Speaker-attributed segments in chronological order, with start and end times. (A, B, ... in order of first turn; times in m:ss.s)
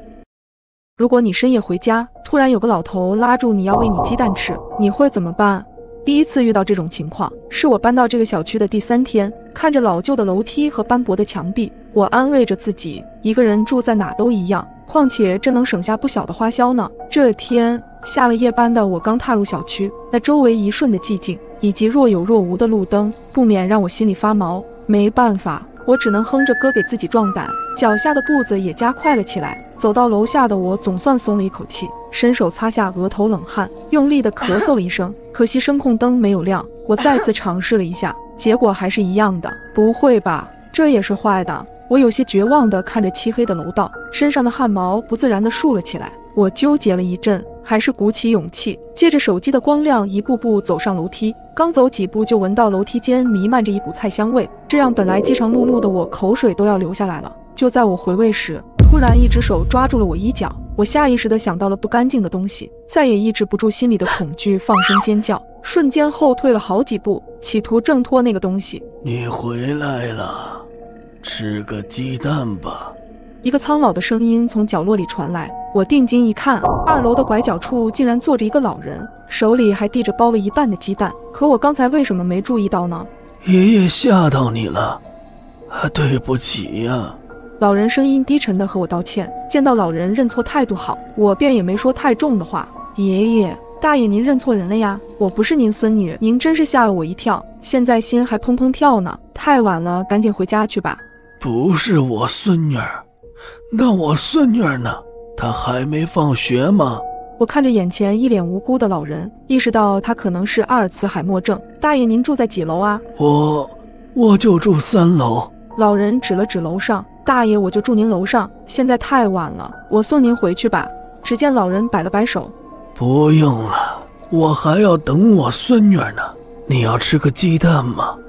0:01.0-1:08.8 A
1:09.0-1:10.6 B
1:11.2-1:12.9 B
1:13.4-1:23.1 A
1:23.4-1:25.0 B
1:25.7-1:27.2 B
1:27.6-1:41.0 A
1:41.4-1:43.0 B
1:43.7-1:47.0 B
1:47.4-1:53.0 A
1:53.2-1:55.5 B
1:55.8-2:02.5 A
2:03.0-2:08.2 B